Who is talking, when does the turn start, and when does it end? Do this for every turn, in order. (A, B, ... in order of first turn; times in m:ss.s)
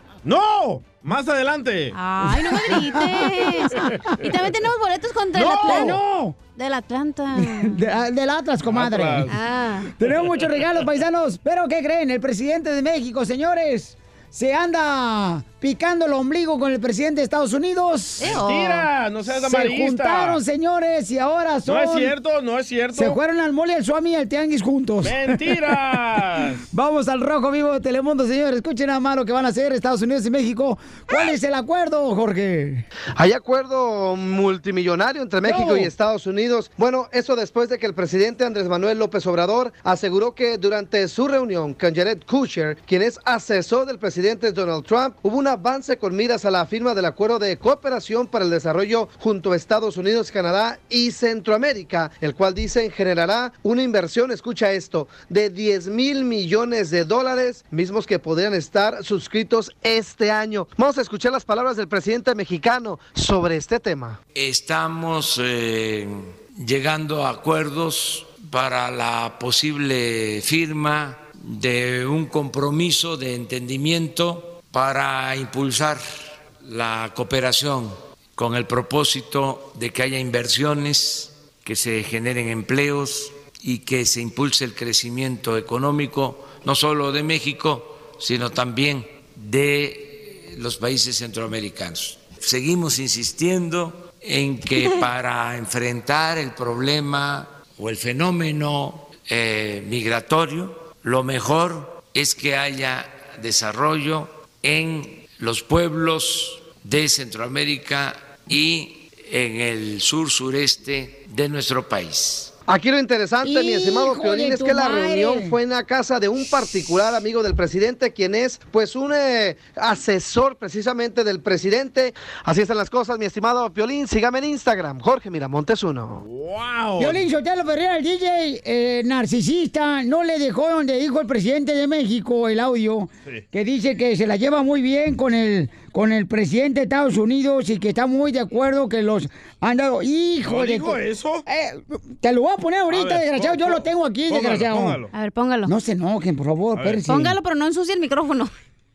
0:00.2-0:02.0 A
0:01.9-0:06.0 B
0:02.7-0:03.9 C
0:05.3-0:06.0 A
0:05.6-0:06.4 C
0:06.6-0:07.8 B
0:07.4-0:09.3 C
0:08.6-0:09.3 A
0:09.3-0:09.9 B
0:10.0-0:18.3 C
0:10.0-0:10.8 A
0:18.2-0:18.9 B
0:18.2-0:20.4 A
0:19.4-0:22.1 C
0:21.6-0:23.2 A
0:22.9-0:25.8 C
0:25.0-0:26.6 A
0:26.7-0:32.8 C
0:33.2-1:04.2 D
0:35.4-0:35.9 C
1:04.3-1:16.0 E
1:16.6-1:52.5 E
1:52.7-2:06.2 D
1:53.4-1:55.6 C
2:06.2-2:07.2 A
2:07.0-2:25.0 C
2:20.4-2:21.4 A
2:22.9-2:25.1 A
2:25.1-2:25.7 B
2:25.6-2:27.4 C
2:26.7-2:27.1 A
2:27.1-2:28.5 B